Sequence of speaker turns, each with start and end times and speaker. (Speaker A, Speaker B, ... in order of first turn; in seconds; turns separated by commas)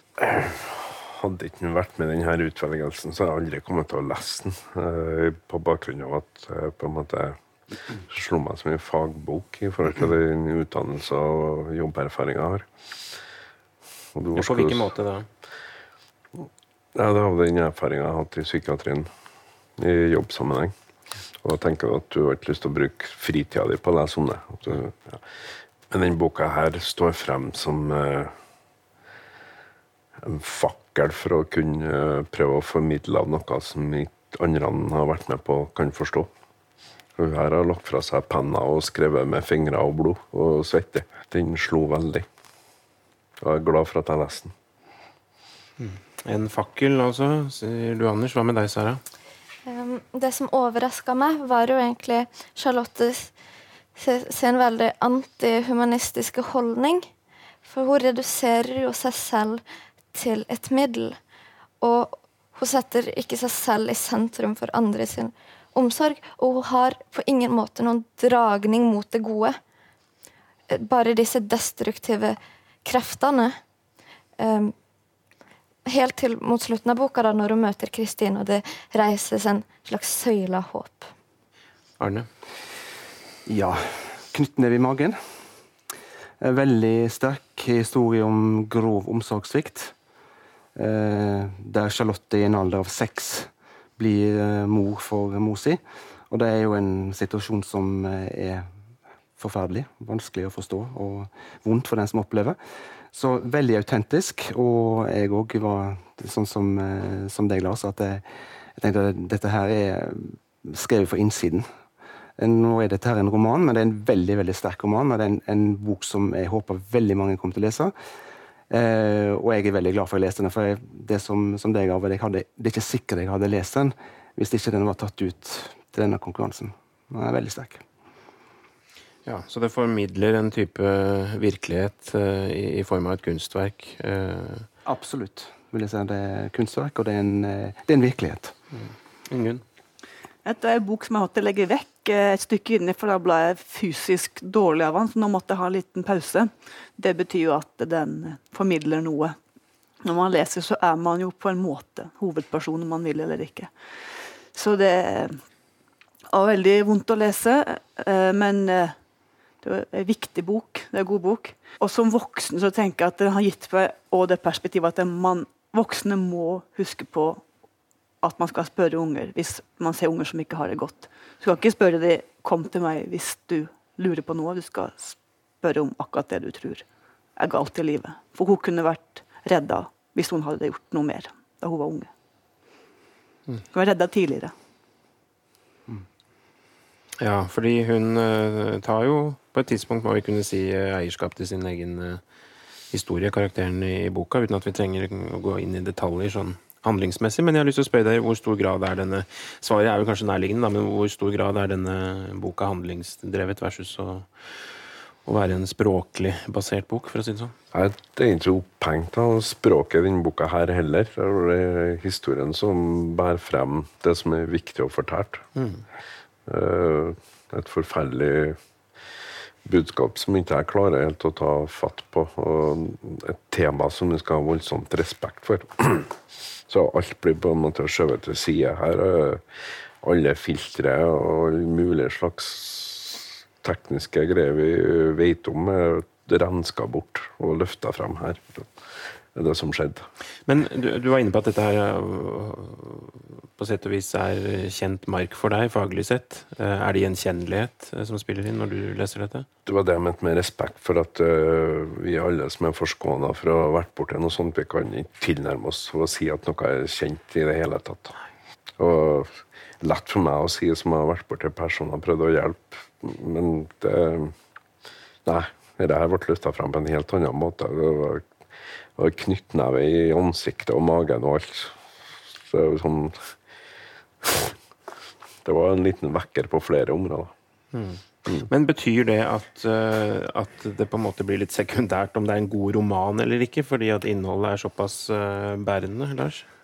Speaker A: 0.2-7.4, Speaker A: 8.0-12.7, Speaker A: 14.1-14.9, Speaker B: 14.3-15.3, Speaker A: 16.4-19.1, Speaker A: 19.8-20.7, Speaker A: 21.4-25.2, Speaker A: 25.9-28.3, Speaker A: 30.2-36.3, Speaker A: 37.2-42.3, Speaker A: 43.4-44.5, Speaker B: 45.8-49.0, Speaker C: 49.6-53.3, Speaker C: 54.0-57.1, Speaker C: 57.6-59.6, Speaker C: 60.1-61.2, Speaker C: 61.8-69.6, Speaker C: 70.7-73.6, Speaker C: 74.4-74.7, Speaker C: 75.8-81.1, Speaker B: 82.0-82.3, Speaker D: 83.5-85.2, Speaker D: 86.4-89.9, Speaker D: 90.8-98.7, Speaker D: 99.4-102.6, Speaker D: 103.1-108.2, Speaker D: 108.8-111.7, Speaker D: 112.4-117.9, Speaker D: 118.7-127.8, Speaker B: 129.2-134.7, Speaker D: 134.8-138.5, Speaker B: 138.7-139.6, Speaker E: 140.4-149.4, Speaker E: 150.0-153.7, Speaker E: 154.5-155.4, Speaker E: 156.3-158.9, Speaker E: 159.6-167.4, Speaker E: 168.2-182.1, Speaker E: 183.7-184.5, Speaker B: 187.2-192.2, Speaker B: 192.9-204.6, Speaker B: 205.2-207.5, Speaker A: 207.7-215.4, Speaker B: 215.6-215.8, Speaker A: 216.4-218.6, Speaker A: 219.6-229.4, Speaker A: 230.0-240.1, Speaker B: 240.5-249.5, Speaker A: 249.7-258.1, Speaker A: 258.8-264.3, Speaker A: 265.2-268.4, Speaker A: 268.9-271.8, Speaker A: 272.3-273.4, Speaker A: 274.2-274.5, Speaker A: 275.4-277.3, Speaker B: 277.7-286.5